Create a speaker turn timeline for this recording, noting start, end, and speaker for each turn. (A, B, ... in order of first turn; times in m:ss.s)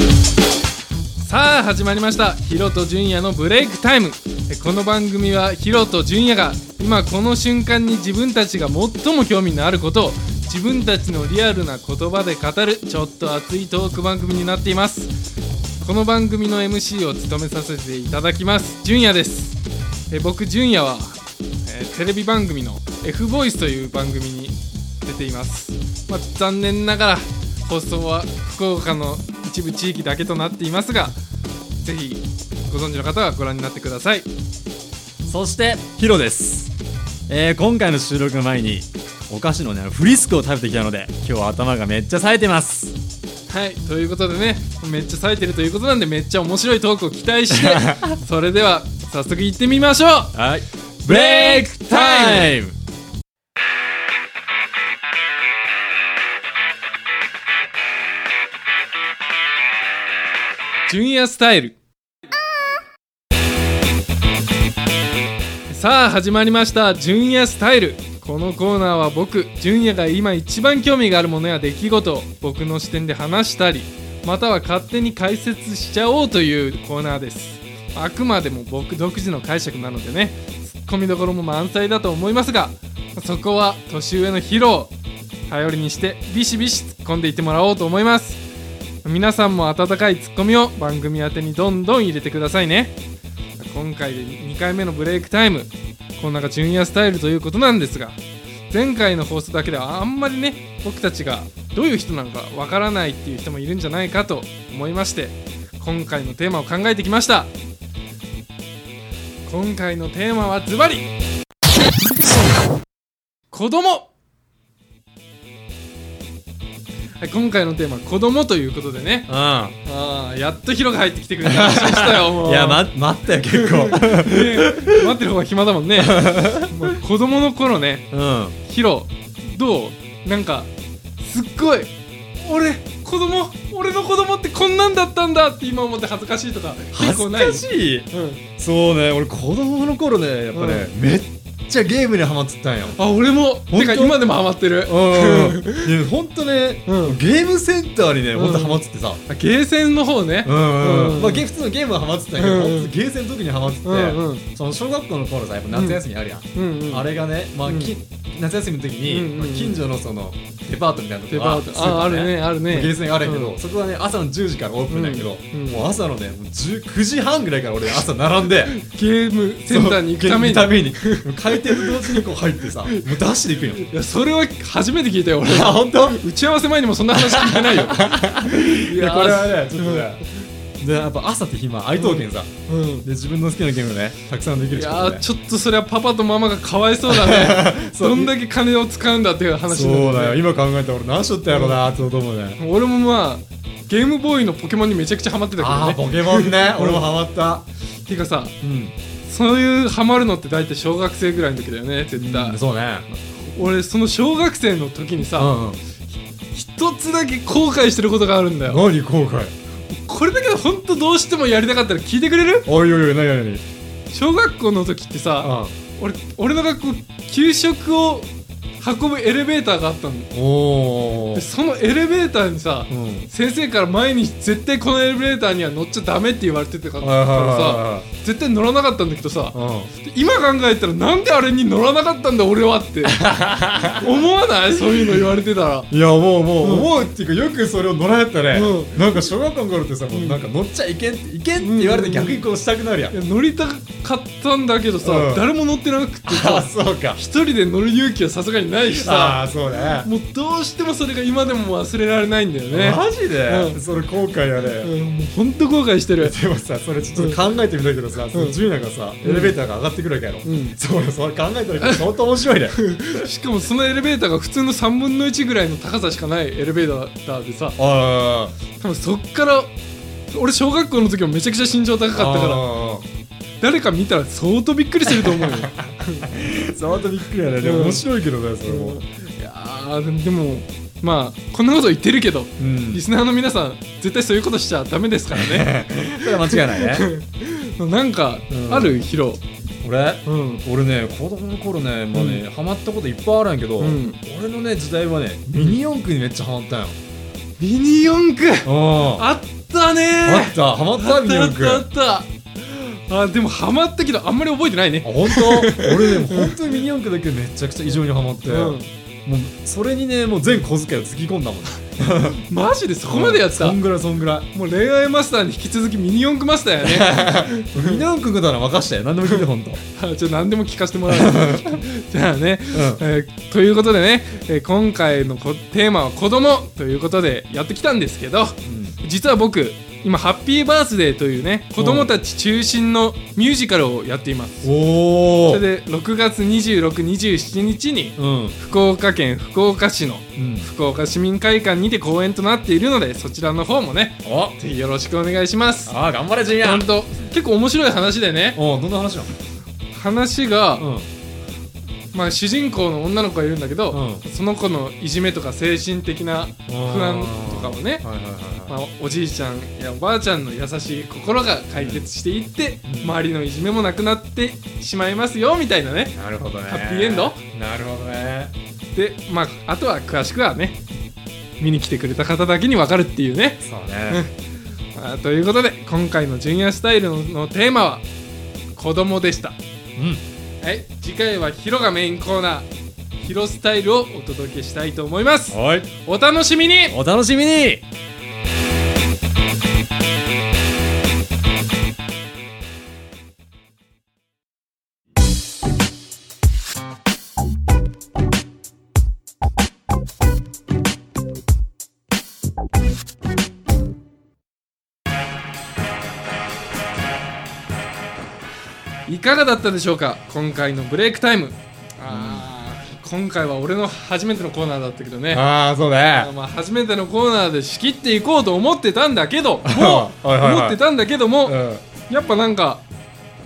0:01.2-0:15.1 A
0:15.8-0:19.6 A
0:20.1-0:31.2 A
0:31.8-0:34.3 A
0:35.2-0:36.7 B
0:37.3-0:42.9 B
0:43.5-0:50.3 A
0:47.5-0:48.1 B
0:50.3-0:52.7 B
0:51.0-0:52.6 A
1:00.9-1:01.8 A
1:05.7-1:24.9 A
1:25.5-1:28.4 A
1:29.0-1:33.0 A
1:33.6-1:38.2 A
1:38.7-1:47.5 A
1:49.4-1:51.1 A
1:53.5-1:54.1 A
1:57.2-1:59.3 A
1:59.3-1:59.8 B
1:59.8-2:02.8 A
2:01.4-2:05.1 B
2:03.5-2:08.1 A
2:06.0-2:06.9 B
2:08.1-2:08.6 B
2:08.6-2:18.4 A
2:16.9-2:23.0 B
2:20.5-2:20.9 A
2:22.9-2:25.9 A
2:23.7-2:24.2 B
2:24.8-2:29.2 B
2:26.9-2:27.2 A
2:28.3-2:31.4 A
2:30.4-2:48.7 B
2:32.4-2:32.9 A
2:33.8-2:34.4 A
2:35.7-2:36.0 A
2:36.5-2:37.1 A
2:37.6-2:37.9 A
2:39.0-2:39.8 A
2:41.3-2:43.6 A
2:44.9-2:45.9 A
2:48.7-2:52.2 A
2:49.7-2:53.8 B
2:52.8-2:53.1 A
2:53.8-3:00.3 A
2:55.4-2:56.2 B
2:57.1-3:00.2 B
3:00.8-3:02.5 B
3:02.0-3:03.0 A
3:03.0-3:05.2 B
3:04.7-3:10.4 A
3:07.0-3:08.3 B
3:09.7-3:12.6 B
3:11.5-3:11.8 A
3:12.6-3:17.0 A
3:15.6-3:17.6 B
3:18.1-3:18.5 A
3:18.6-3:18.9 B
3:19.2-3:22.6 A
3:22.2-3:23.0 B
3:23.1-3:25.5 A
3:25.4-3:25.8 B
3:26.5-3:28.8 A
3:28.6-3:29.5 B
3:29.9-3:32.7 A
3:32.6-3:33.6 B
3:34.1-3:38.3 A
3:35.4-3:35.7 B
3:38.8-3:40.3 A
3:40.3-3:41.5 B
3:41.3-3:53.2 A
3:42.9-3:43.3 B
3:47.0-3:48.0 B
3:49.5-3:49.9 B
3:53.0-3:54.1 B
3:53.9-3:55.9 A
3:55.9-4:03.1 B
3:56.6-3:56.9 A
3:58.5-3:59.2 A
4:00.1-4:00.4 A
4:01.6-4:02.4 A
4:03.1-4:13.8 A
4:05.0-4:05.4 B
4:06.2-4:07.2 B
4:08.9-4:10.1 B
4:12.7-4:14.9 B
4:14.8-4:16.4 A
4:16.2-4:23.2 B
4:18.3-4:18.6 A
4:19.2-4:19.5 A
4:20.4-4:20.7 A
4:21.8-4:22.1 A
4:22.8-4:27.8 A
4:27.8-4:28.5 B
4:28.8-4:29.7 A
4:30.3-4:32.6 A
4:32.1-4:33.0 B
4:33.6-4:36.3 A
4:35.1-4:39.0 B
4:37.6-4:38.0 A
4:38.6-4:45.7 A
4:42.6-4:43.0 B
4:45.3-4:47.1 B
4:46.2-4:49.4 A
4:48.5-4:49.0 B
4:49.8-4:57.0 B
4:50.2-4:50.6 A
4:52.1-4:52.4 A
4:53.8-4:54.2 A
4:55.5-4:55.8 A
4:57.6-5:06.6 A
4:58.6-4:59.2 B
5:00.2-5:01.8 B
5:05.0-5:12.4 B
5:08.4-5:08.9 A
5:12.4-5:13.8 A
5:13.1-5:14.5 B
5:14.5-5:18.0 A
5:16.8-5:19.8 B
5:19.2-5:34.7 A
5:21.1-5:21.8 B
5:22.7-5:23.0 B
5:28.6-5:29.0 B
5:31.8-5:32.1 B
5:34.6-5:35.6 B
5:35.5-5:45.9 A
5:38.2-5:38.6 B
5:40.4-5:40.7 B
5:44.2-5:44.6 B
5:45.9-5:46.9 B
5:46.5-5:48.6 A
5:48.5-5:49.3 B
5:49.9-5:50.9 A
5:50.8-5:51.1 B
5:52.1-5:58.0 A
5:53.9-5:54.2 B
5:56.7-5:58.8 B
5:58.7-6:06.1 A
6:01.8-6:02.0 B
6:02.8-6:03.2 B
6:06.1-6:08.5 B
6:06.7-6:07.4 A
6:08.9-6:10.8 A
6:11.6-6:14.3 A
6:13.6-6:14.2 B
6:14.9-6:18.0 A
6:18.7-6:19.6 A
6:20.0-6:20.2 B
6:20.6-6:27.0 A
6:25.5-6:25.9 B
6:26.9-6:27.8 B
6:49.0-6:55.4 A
6:52.0-6:52.5 B
6:55.3-6:56.3 B
6:56.2-7:01.6 A
6:59.6-7:00.8 B
7:01.4-7:01.8 B
7:02.1-7:02.8 A